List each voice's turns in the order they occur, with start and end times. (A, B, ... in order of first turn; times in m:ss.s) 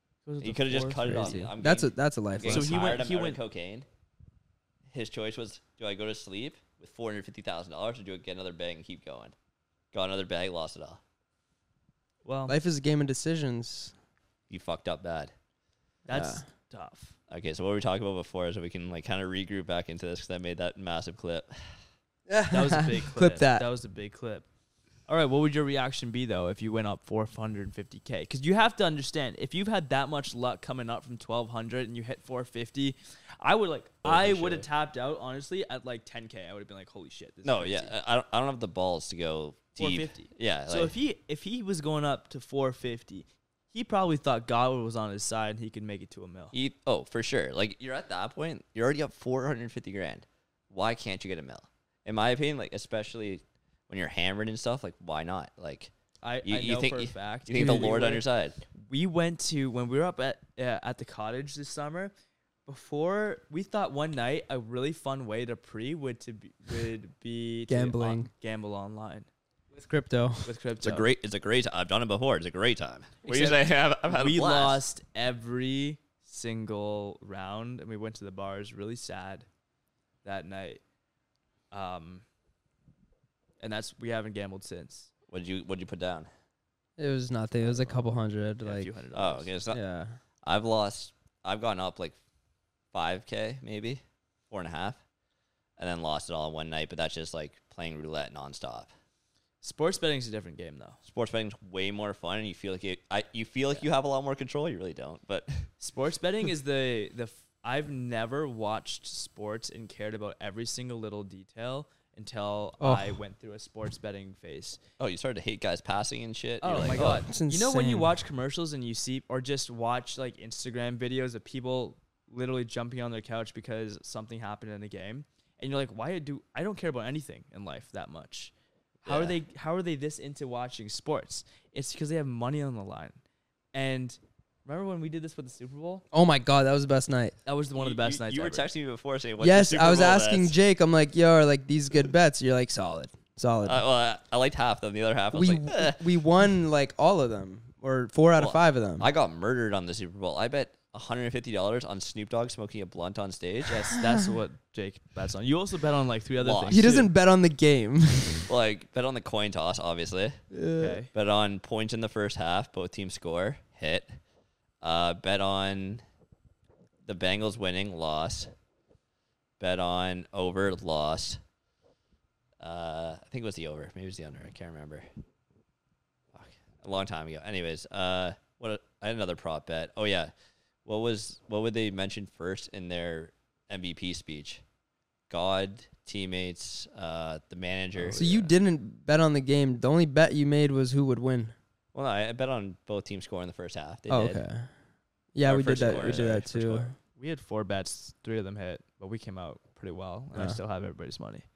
0:00.3-0:01.5 A
0:00.4-0:03.9 B
0:01.2-0:02.8 C
0:02.4-0:03.4 A
0:04.9-0:09.4 B
0:09.9-0:11.0 B
0:12.2-0:12.6 A
0:12.5-0:14.0 C
0:14.5-0:15.3 B
0:16.0-0:17.2 A
0:16.1-0:16.4 C
0:17.3-0:21.8 B
0:22.3-0:23.7 C
0:22.5-0:24.5 A
0:25.1-0:38.0 A
0:34.0-0:34.7 B
0:37.4-0:41.0 B
0:39.8-0:46.5 A
0:46.5-0:55.9 B
0:56.2-0:58.2 A
0:56.4-0:58.6 B
0:57.5-0:58.2 C
0:58.8-1:02.1 A
1:02.7-1:09.3 A
1:07.7-1:08.3 C
1:09.7-1:10.5 C
1:10.4-1:11.1 A
1:10.8-1:14.8 B
1:13.2-1:19.5 A
1:20.2-1:20.8 A
1:21.7-1:22.2 A
1:23.6-1:25.1 A
1:25.3-1:26.3 B
1:27.0-1:28.9 C
1:28.6-1:29.5 A
1:29.1-1:29.8 B
1:29.7-1:30.2 C
1:30.4-1:32.2 B
1:32.9-1:35.0 B
1:35.8-1:38.9 B
1:39.6-1:41.0 A
1:41.0-1:45.7 B
1:45.8-1:54.8 A
1:52.8-1:53.2 C
1:55.0-1:57.3 B
1:56.6-2:08.5 A
1:56.8-1:58.2 C
2:09.0-2:09.4 B
2:09.1-2:13.2 A
2:13.7-2:16.0 A
2:16.1-2:17.4 C
2:17.5-2:18.7 A
2:17.8-2:20.5 B
2:19.4-2:23.8 C
2:23.6-2:26.0 B
2:25.3-2:29.1 C
2:28.4-2:33.8 B
2:33.7-2:37.1 A
2:36.4-2:36.9 B
2:36.7-2:38.5 C
2:38.5-2:40.4 B
2:40.5-2:41.0 C
2:40.8-2:41.1 A
2:41.1-2:44.2 B
2:44.8-2:46.0 B
2:47.0-2:48.5 B
2:49.6-2:51.4 B
2:52.6-2:55.1 B
2:56.3-3:00.3 B
3:00.8-3:04.6 B
3:05.3-3:08.2 B
3:08.0-3:08.5 A
3:08.1-3:11.6 C
3:11.9-3:14.4 B
3:14.1-3:14.7 C
3:15.3-3:17.0 C
3:15.4-3:16.9 B
3:15.7-3:16.4 A
3:17.2-3:21.5 A
3:20.3-3:20.6 C